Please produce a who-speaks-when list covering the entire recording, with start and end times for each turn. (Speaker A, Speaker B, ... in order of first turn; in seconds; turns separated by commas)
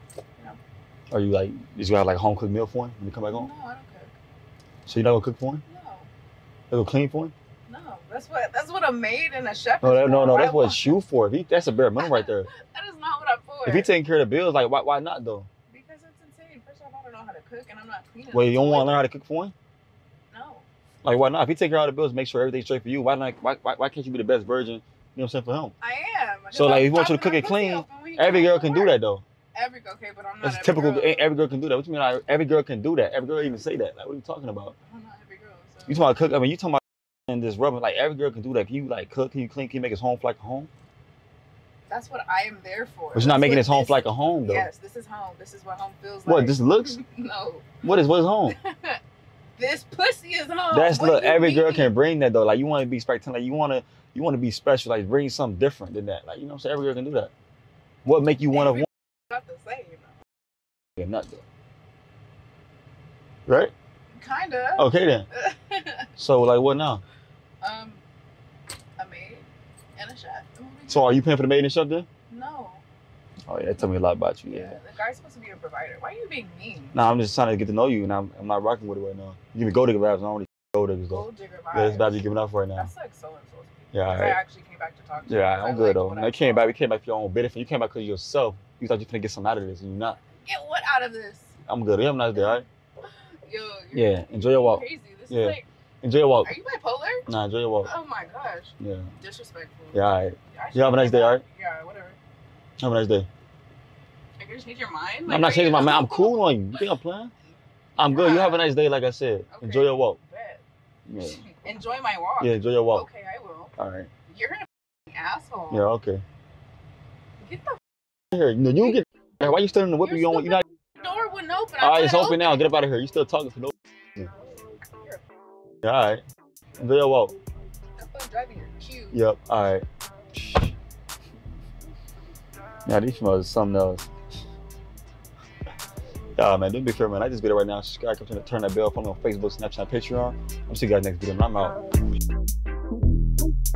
Speaker A: 1.1-3.5, Speaker B: 3.3-4.1, Speaker A: 4.9-5.6, Speaker B: 5.7-6.1, Speaker A: 6.7-7.3, Speaker B: 7.7-11.0, Speaker A: 9.8-12.5, Speaker B: 11.9-13.9, Speaker A: 13.6-15.5, Speaker B: 15.7-19.1, Speaker A: 18.3-19.5, Speaker B: 20.3-20.7, Speaker A: 21.0-25.7, Speaker B: 25.8-29.0, Speaker A: 26.5-29.2, Speaker B: 29.5-31.3, Speaker A: 30.4-34.8, Speaker B: 34.8-36.1, Speaker A: 35.9-40.7, Speaker B: 41.9-47.8, Speaker A: 43.1-44.7, Speaker A: 46.2-47.0, Speaker A: 47.8-48.6, Speaker B: 48.5-49.0, Speaker B: 49.5-51.9, Speaker A: 50.7-57.3, Speaker A: 58.0-58.9, Speaker B: 58.5-60.2, Speaker A: 61.0-61.4, Speaker A: 63.5-63.7, Speaker B: 64.1-66.1, Speaker A: 64.8-65.3, Speaker A: 66.2-67.0, Speaker B: 67.6-68.0, Speaker B: 69.0-71.2, Speaker A: 70.9-72.0, Speaker B: 72.3-72.8, Speaker A: 73.5-74.8, Speaker B: 74.5-77.0, Speaker A: 76.9-82.9, Speaker B: 81.1-86.8, Speaker A: 83.9-84.4, Speaker A: 85.3-90.2, Speaker B: 90.3-91.6, Speaker A: 91.7-92.6, Speaker B: 92.3-95.7, Speaker A: 93.9-96.5, Speaker B: 96.4-97.3, Speaker A: 97.2-97.9, Speaker B: 97.8-102.2, Speaker A: 98.8-99.1, Speaker A: 99.9-101.4, Speaker A: 102.8-103.3, Speaker B: 104.4-106.9, Speaker A: 105.2-107.3, Speaker A: 108.0-110.2, Speaker B: 108.0-108.7, Speaker B: 109.5-110.6, Speaker A: 111.1-111.4, Speaker B: 111.2-113.7, Speaker A: 112.4-113.1, Speaker A: 113.8-114.1, Speaker B: 114.3-115.9, Speaker A: 115.7-116.2, Speaker B: 117.4-117.8, Speaker A: 118.3-120.6, Speaker B: 120.0-122.8, Speaker A: 121.8-124.3, Speaker B: 125.0-125.2, Speaker A: 125.8-126.2, Speaker A: 126.8-127.3, Speaker B: 128.0-129.2, Speaker A: 129.1-129.8, Speaker A: 132.8-134.1, Speaker A: 136.3-141.8